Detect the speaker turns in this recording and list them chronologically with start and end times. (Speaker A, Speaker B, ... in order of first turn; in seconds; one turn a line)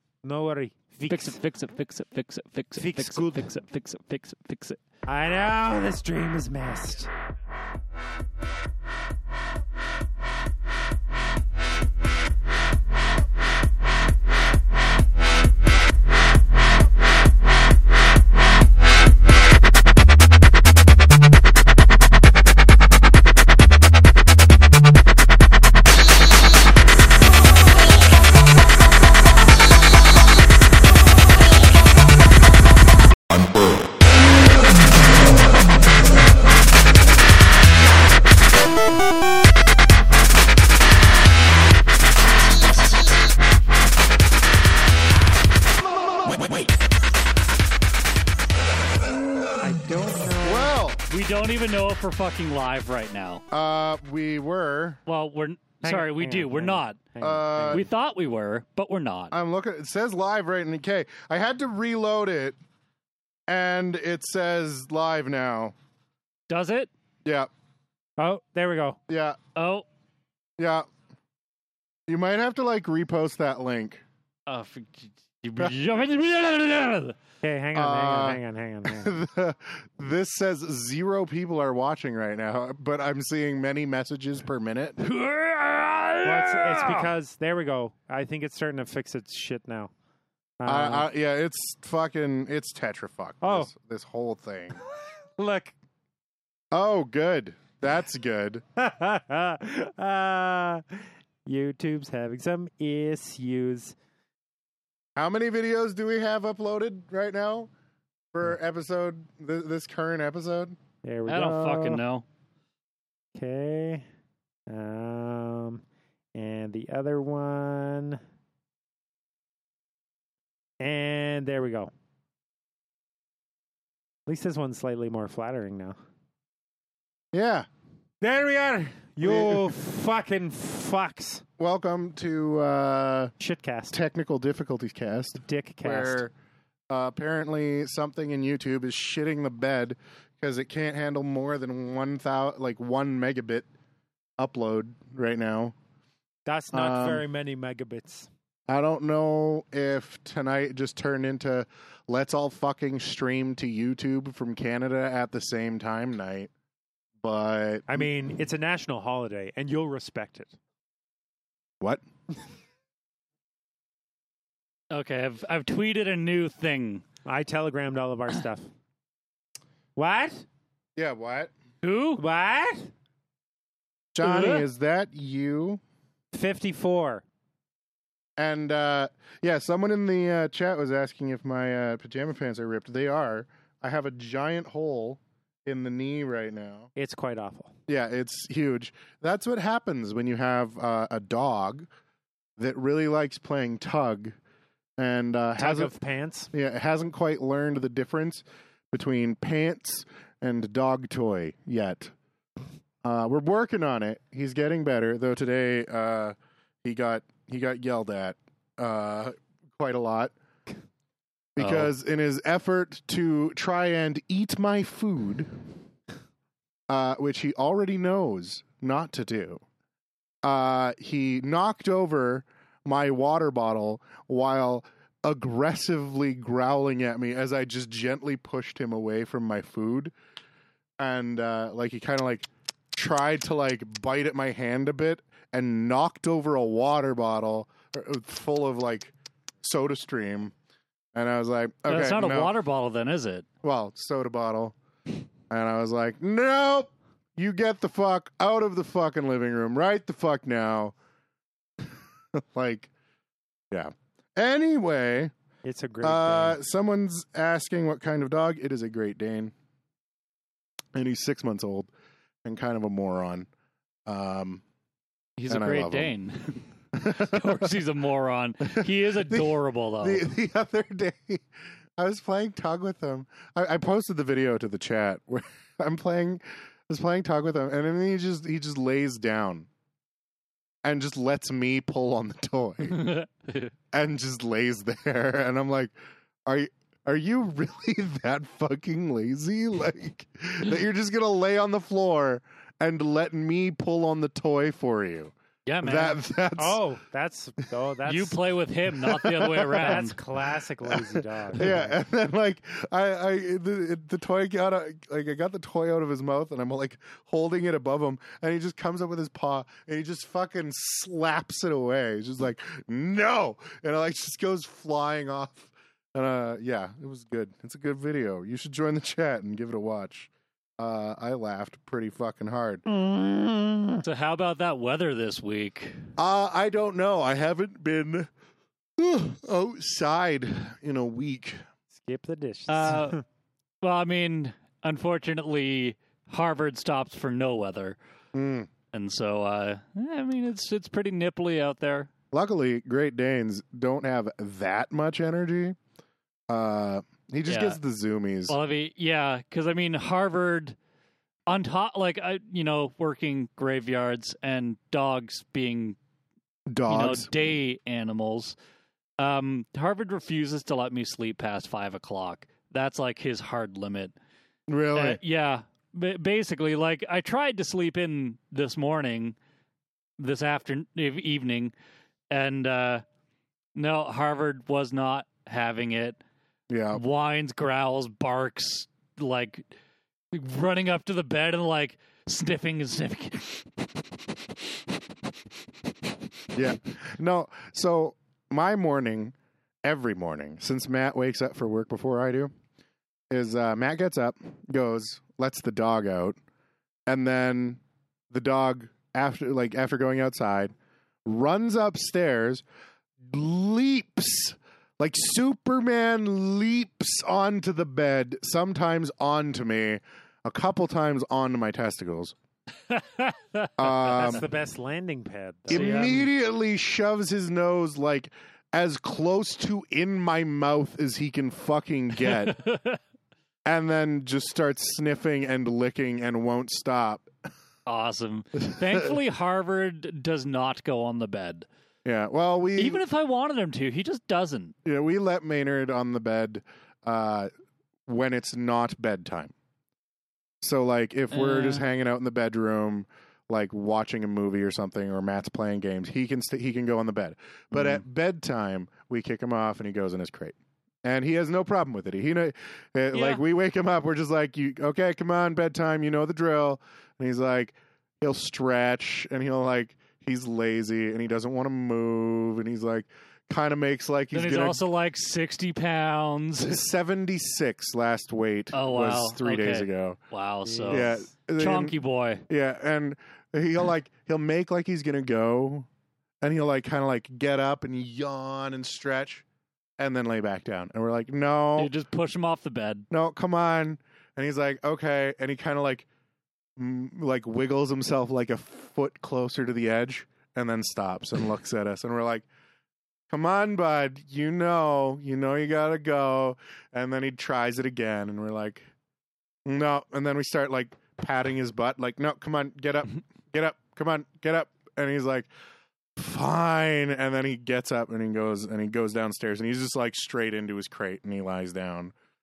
Speaker A: 0.2-1.4
Speaker B: 1.1-4.8
Speaker A: 2.8-3.5
Speaker A: 5.1-7.1
Speaker A: 49.6-50.8
Speaker C: 50.4-51.0
Speaker B: 51.1-53.4
Speaker C: 53.5-55.0
Speaker B: 55.1-57.0
Speaker A: 55.8-57.9
Speaker C: 57.2-57.9
Speaker B: 57.7-59.3
Speaker C: 59.3-62.6
Speaker C: 63.5-65.8
Speaker B: 66.5-66.9
Speaker A: 68.2-69.0
Speaker C: 69.1-69.4
Speaker B: 69.5-69.9
Speaker C: 70.6-70.9
Speaker C: 72.1-74.0
Speaker B: 74.5-77.2
Speaker A: 77.4-79.2
Speaker C: 77.8-85.0
Speaker B: 85.0-87.1
Speaker A: 86.2-89.9
Speaker A: 90.6-91.1
Speaker C: 90.7-94.8
Speaker A: 93.4-93.7
Speaker A: 95.4-95.8
Speaker C: 96.7-98.6
Speaker A: 98.8-104.0
Speaker C: 105.2-107.7
Speaker C: 108.3-110.8
Speaker A: 111.0-112.0
Speaker B: 111.3-112.2
Speaker A: 113.4-114.1
Speaker A: 114.7-115.8
Speaker A: 116.3-118.2
Speaker A: 120.8-121.9
Speaker A: 124.3-126.0
Speaker C: 127.3-127.7
Speaker A: 128.2-131.4
Speaker C: 129.2-129.7
Speaker C: 131.6-133.3
Speaker A: 133.4-134.0
Speaker C: 133.9-136.3
Speaker A: 135.4-136.2
Speaker C: 136.9-143.7
Speaker C: 144.4-145.8
Speaker A: 146.5-148.3
Speaker C: 146.7-147.2
Speaker C: 148.7-156.5
Speaker C: 157.2-158.1
Speaker A: 157.9-160.6
Speaker C: 161.8-162.1
Speaker B: 164.9-167.1
Speaker A: 167.3-168.7
Speaker A: 170.0-170.5
Speaker C: 171.0-171.5
Speaker B: 171.8-172.2
Speaker A: 172.2-172.9
Speaker C: 174.1-175.8
Speaker B: 174.2-174.7
Speaker A: 176.3-177.2
Speaker C: 178.4-186.9
Speaker A: 187.0-187.8
Speaker C: 187.9-191.9
Speaker C: 192.6-194.4
Speaker C: 195.0-195.9
Speaker A: 195.6-196.5
Speaker C: 196.5-202.1
Speaker C: 203.0-210.3
Speaker C: 211.6-215.6
Speaker B: 211.6-211.9
Speaker C: 216.9-219.6
Speaker C: 220.4-230.1
Speaker C: 231.0-240.5
Speaker C: 241.1-242.5
Speaker B: 241.9-243.5
Speaker C: 243.6-244.8
Speaker C: 245.5-250.9
Speaker C: 251.8-252.9
Speaker C: 253.7-255.3
Speaker A: 255.6-256.6
Speaker C: 256.0-259.5
Speaker C: 260.9-261.9
Speaker C: 262.4-263.5
Speaker C: 264.1-264.6
Speaker B: 265.4-270.3
Speaker C: 265.5-266.1
Speaker C: 267.0-267.7
Speaker C: 268.7-271.4
Speaker C: 272.0-279.7
Speaker C: 280.8-283.1
Speaker B: 282.9-283.7
Speaker C: 283.9-285.9
Speaker C: 286.5-296.8
Speaker B: 295.7-296.2
Speaker A: 296.6-298.4
Speaker B: 298.1-300.2
Speaker C: 299.0-300.0
Speaker A: 299.7-301.9
Speaker C: 300.9-322.8
Speaker A: 323.2-323.9
Speaker B: 324.0-326.0
Speaker C: 326.2-328.3
Speaker C: 329.0-331.6
Speaker A: 332.0-333.2
Speaker B: 332.7-333.2
Speaker B: 333.8-338.0
Speaker C: 338.3-338.7
Speaker B: 338.9-342.1
Speaker C: 342.3-345.8
Speaker C: 346.5-348.6
Speaker B: 347.5-347.8
Speaker B: 348.5-350.8
Speaker B: 351.5-356.0
Speaker C: 356.7-357.3
Speaker B: 356.9-358.6
Speaker B: 359.2-364.1
Speaker C: 364.7-365.2
Speaker B: 364.9-369.4
Speaker B: 370.2-371.7
Speaker B: 372.3-373.0
Speaker B: 373.8-376.2
Speaker C: 376.7-377.0
Speaker B: 376.9-379.7
Speaker B: 380.3-383.9
Speaker C: 386.5-392.5
Speaker C: 393.3-396.4
Speaker C: 397.1-400.7
Speaker C: 401.2-402.6
Speaker C: 403.2-412.4
Speaker B: 412.9-414.4
Speaker C: 413.8-414.5
Speaker A: 414.1-416.2
Speaker C: 415.7-422.6
Speaker B: 415.7-416.3
Speaker B: 422.2-423.0
Speaker C: 423.6-427.3
Speaker B: 427.9-431.7
Speaker C: 432.1-433.0
Speaker B: 432.8-434.8
Speaker C: 434.9-437.5
Speaker C: 438.1-439.5
Speaker C: 440.6-464.8
Speaker B: 441.3-441.9
Speaker B: 453.1-453.4
Speaker B: 464.3-466.8
Speaker C: 466.6-470.2
Speaker B: 468.7-472.4
Speaker A: 470.6-471.2
Speaker C: 470.9-471.9
Speaker C: 472.5-475.9
Speaker C: 476.4-479.4
Speaker C: 480.0-481.9
Speaker B: 481.8-483.1
Speaker C: 483.1-486.1
Speaker C: 486.8-492.5
Speaker C: 493.3-498.9
Speaker C: 499.6-505.5
Speaker C: 506.2-512.1